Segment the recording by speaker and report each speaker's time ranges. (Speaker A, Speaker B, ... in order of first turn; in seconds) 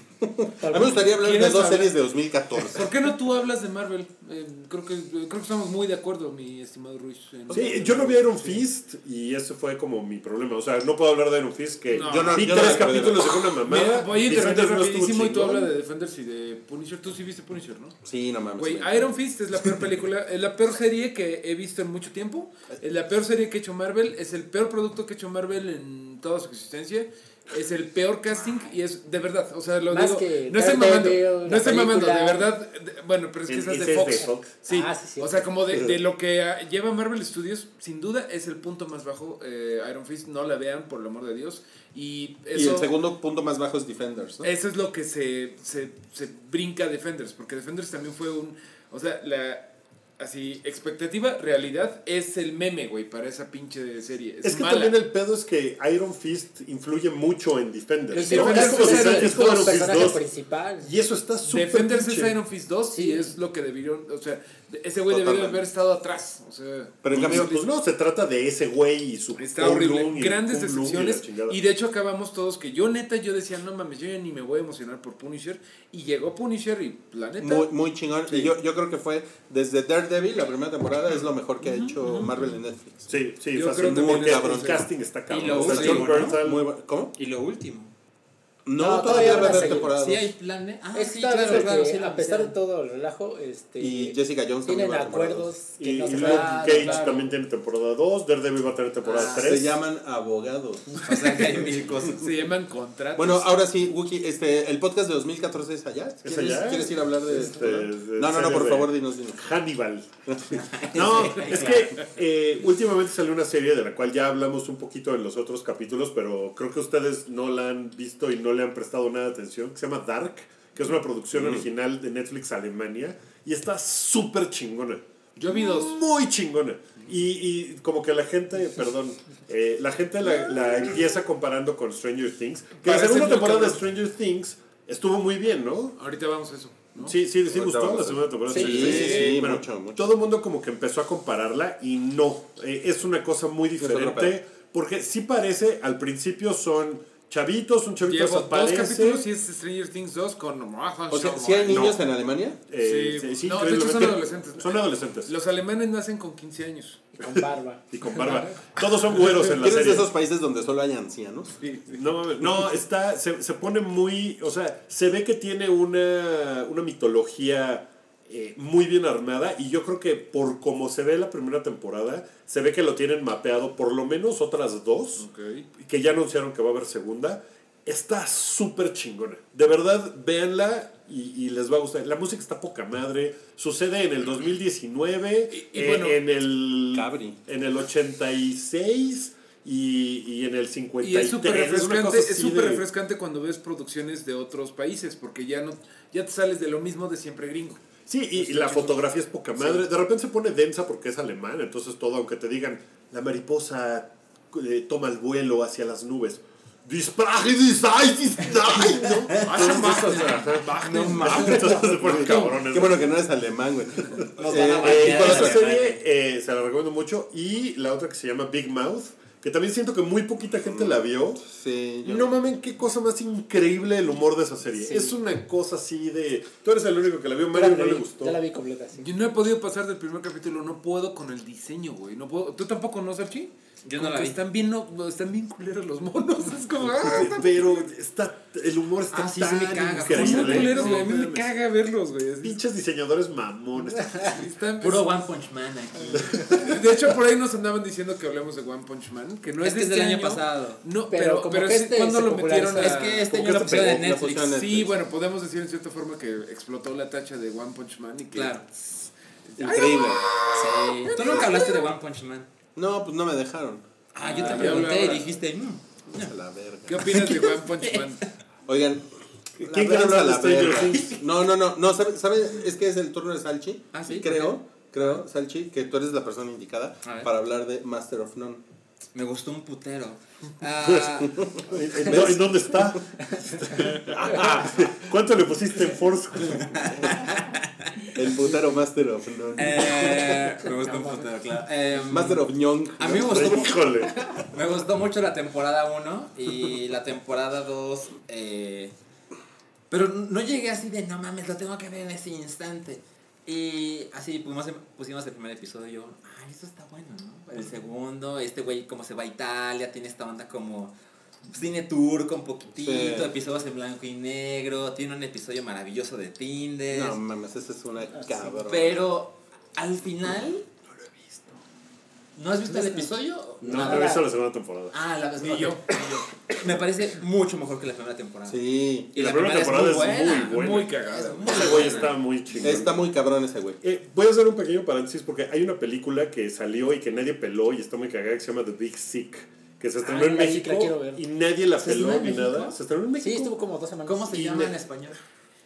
Speaker A: 0.2-2.9, 7.5-7.9, 12.0-13.3, 18.0-19.1, 42.5-44.5, 65.1-65.7, 67.0-67.5, 77.4-83.1, 83.8-84.9, 85.5-87.1, 88.7-90.3, 93.8-95.5, 99.3-101.9, 103.2-109.5, 110.3-111.4, 121.3-121.7, 137.5-140.0, 143.8-144.4, 151.1-152.6, 159.4-161.6, 186.9-187.4, 210.8-215.6, 220.7-222.3, 253.3-254.9, 259.6-260.3, 261.2-261.5, 262.8-264.9, 266.1-267.4, 268.7-269.1, 269.6-278.6, 281.4-283.0, 284.1-284.8, 288.1-290.4, 292.1-293.7, 312.8-313.3, 316.9-319.0, 328.5-329.1, 332.6-333.8
Speaker B: 0.6-1.1, 29.9-32.5, 34.7-35.5, 58.1-60.9, 62.9-63.3, 88.8-89.9, 91.0-97.2, 138.5-139.1, 157.2-158.5, 224.8-225.2, 227.5-229.1, 251.1-253.1, 283.4-283.8, 290.6-291.3, 318.1-318.5, 322.7-323.1, 323.6-324.2, 340.0-341.2, 343.2-344.7
Speaker C: 1.1-2.0, 2.6-8.6, 11.9-13.1, 13.6-18.0, 18.6-42.9, 44.4-55.0, 58.2-59.8, 61.4-67.7, 69.4-77.7, 81.6-82.5, 83.5-84.9, 85.5-86.1, 101.2-101.6, 102.1-103.5, 125.4-126.0, 132.8-133.8, 136.0-137.2, 138.5-139.4, 148.0-152.0, 152.8-157.1, 161.6-162.0, 175.2-175.7, 185.5-186.2, 191.0-197.8, 198.4-199.0, 209.4-212.5, 229.0-237.6, 240.1-242.6, 244.2-245.1, 246.4-258.6, 259.6-260.2, 264.2-265.3, 266.9-268.2, 325.4-326.3, 330.2-332.1
Speaker D: 7.5-15.7, 33.5-34.5, 54.4-60.2, 60.8-62.4, 67.1-71.6, 83.1-86.6, 95.8-99.8, 106.2-136.0, 137.0-149.3, 151.7-152.0, 152.7-155.3, 157.2-160.1, 161.9-192.8, 198.1-213.1, 214.5-221.4, 222.0-228.4, 237.0-241.3, 242.4-244.4, 246.2-246.6, 269.6-271.2, 280.8-286.9, 293.2-294.4, 323.6-324.9, 329.1-330.9, 331.5-333.1, 333.8-343.6, 344.3-344.8
Speaker E: 85.3-86.4, 87.2-87.9, 89.0-92.6, 96.1-97.3, 99.0-99.6, 101.0-102.3, 110.6-111.9, 214.4-216.0, 233.8-234.4, 239.1-241.2, 244.8-246.7, 249.6-250.8, 252.8-254.6, 258.3-258.7, 260.0-262.5, 264.1-266.3, 267.1-268.1, 273.9-275.2, 277.0-277.3, 279.1-281.5, 286.8-288.1, 289.6-298.9, 299.9-310.9, 311.5-317.2, 318.6-320.7, 322.4-324.2, 324.9-328.6, 329.1-332.2, 341.8-342.8, 344.1-345.2